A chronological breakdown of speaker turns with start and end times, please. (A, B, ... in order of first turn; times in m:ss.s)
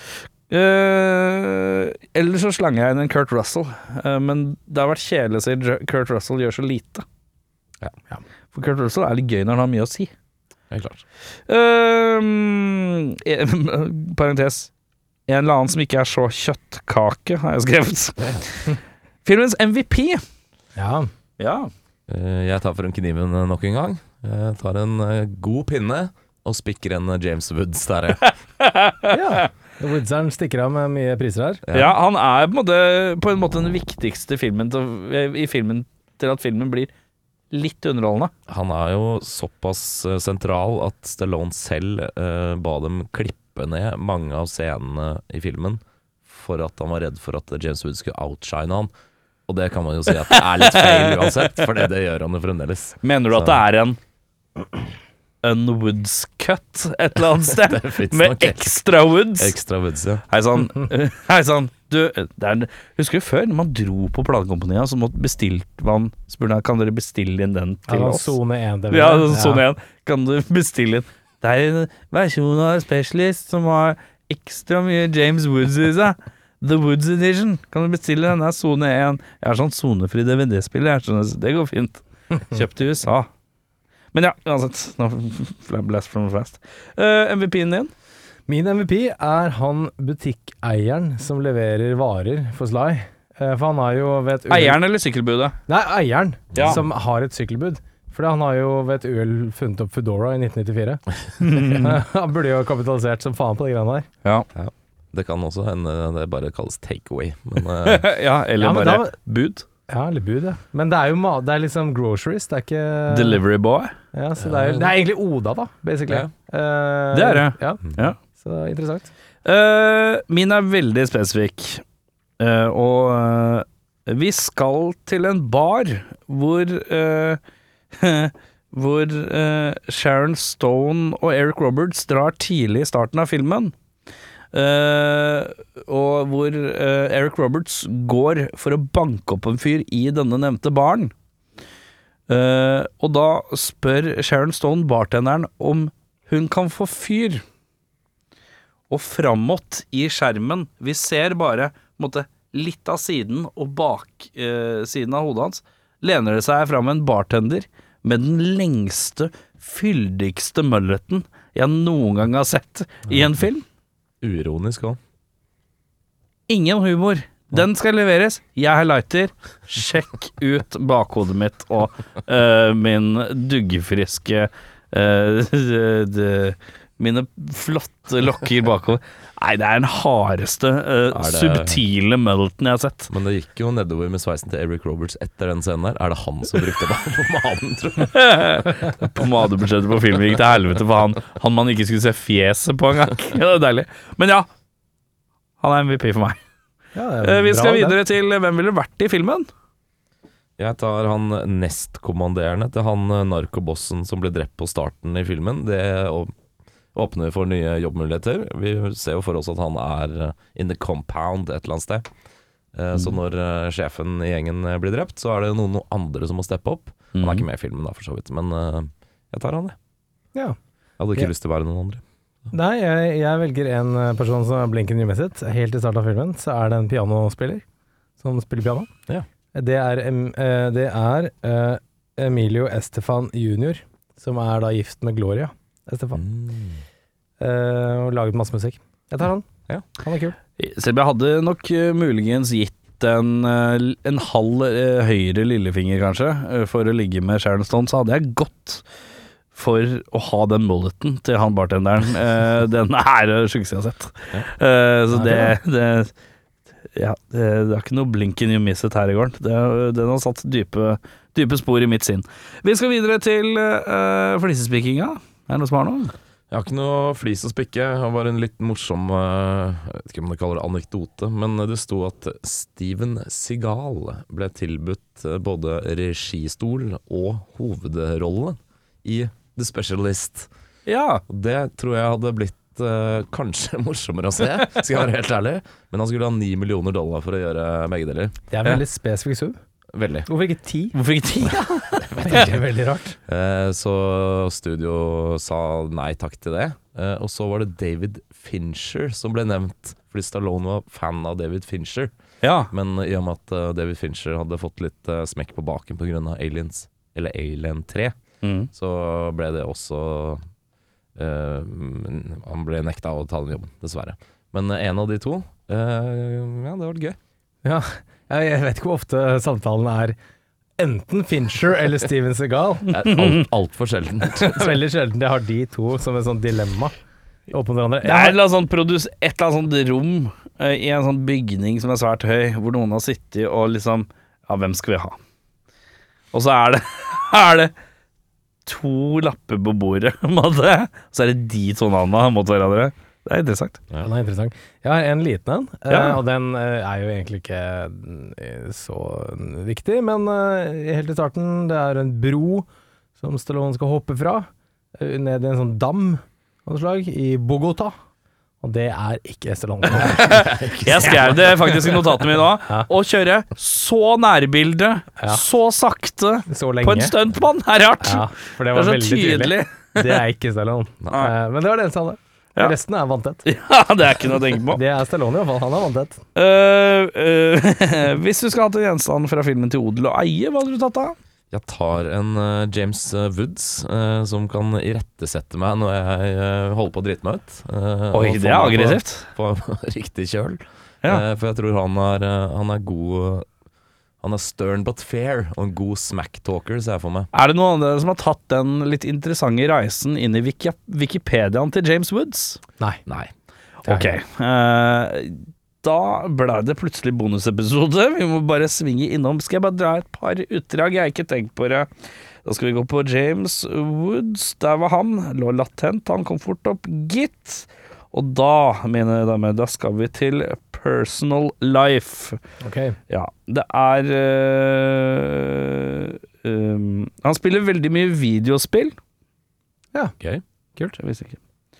0:00.5-0:07.0 A
0:08.5-0:10.1 A
0:10.7-0:11.0 B
0:11.5-0:14.7 A
0:15.3-0:18.7 A
0:19.2-0:20.2 A
0:20.8-0:21.1 C
0:21.4-0:21.7 A
0:22.1-0:28.2 B
0:28.2-0:29.5 A
0:29.1-0:31.6 C
0:31.6-0:31.9 B
0:31.7-0:36.9 A
0:37.5-0:38.3 A
0:38.5-0:48.9 B
0:49.5-0:53.6 B
0:50.3-0:51.6 A
0:53.0-0:54.0 A
0:55.4-0:59.5 A
0:57.5-0:58.7 B
0:59.4-1:00.2 B
1:00.3-1:08.4 A
1:07.9-1:09.6 C
1:08.9-1:23.3 A
1:24.1-1:27.9 A
1:28.5-1:34.8 C
1:34.5-1:35.6 A
1:35.7-1:41.0 C
1:36.5-1:36.8 A
1:36.5-1:36.8 B
1:41.4-1:42.0 A
1:41.6-1:44.0 C
1:44.5-1:48.1 B
1:47.8-1:49.6 A
1:48.6-1:49.2 C
1:49.9-1:53.4 C
1:53.1-1:53.9 A
1:54.1-1:59.1 C
1:54.4-1:54.9 B
1:57.1-1:58.2 A
1:59.4-2:01.8 A
2:02.4-2:07.4 A
2:07.9-2:13.7 A
2:14.5-2:21.1 A
2:22.3-2:27.4 A
2:28.9-2:43.6 A
2:44.2-2:45.0 B
2:46.5-3:03.1 A
3:01.1-3:01.8 B
3:03.1-3:08.3 B
3:08.1-3:14.5 A
3:15.6-3:16.4 A
3:16.9-3:18.0 C
3:17.2-3:19.5 A
3:20.6-3:26.3 B
3:26.9-3:32.1 B
3:32.7-3:39.8 B
3:37.1-3:37.4 A
3:41.0-3:42.0 B
3:42.5-3:47.6 C
3:48.2-3:48.9 C
3:49.5-3:56.2 C
3:56.1-3:56.8 B
3:57.4-3:59.5 C
4:00.0-4:00.4 C
4:00.6-4:08.8 A
4:09.5-4:16.1 A
4:15.1-4:15.5 C
4:16.9-4:26.1 A
4:26.5-4:40.5 B
4:40.8-4:41.2 A
4:41.3-4:48.4 B
4:48.5-4:49.6 C
4:49.9-4:50.3 B
4:50.3-4:51.0 C
4:50.9-4:52.4 A
4:52.1-4:53.2 C
4:53.3-5:02.1 B
5:02.4-5:02.7 A
5:02.7-5:08.1 B
5:08.4-5:08.7 A
5:08.7-5:10.4 B
5:11.2-5:17.2 B
5:17.6-5:20.2 C
5:20.8-5:22.9 C
5:22.9-5:24.8 B
5:23.0-5:23.4 A
5:24.3-5:26.9 C
5:27.5-5:28.4 C
5:28.0-5:35.2 A
5:36.3-5:37.7 A
5:38.6-5:43.8 A
5:44.0-5:52.6 C
5:45.9-5:46.2 A
5:53.2-5:57.9 C
5:58.6-6:00.5 C
6:00.0-6:10.2 A
6:00.2-6:01.4 B
6:06.5-6:07.1 C
6:08.0-6:13.4 C
6:13.4-6:14.8 A
6:14.7-6:16.2 C
6:16.3-6:21.2 A
6:21.5-6:33.4 B
6:28.1-6:29.3 A
6:34.2-6:37.3 B
6:37.3-6:42.6 A
6:43.1-6:43.3 B
6:43.8-6:51.9 A
6:43.9-6:44.1 C
6:52.4-7:02.4 A
7:02.6-7:03.0 C
7:03.1-7:09.0 A
7:11.0-7:11.4 A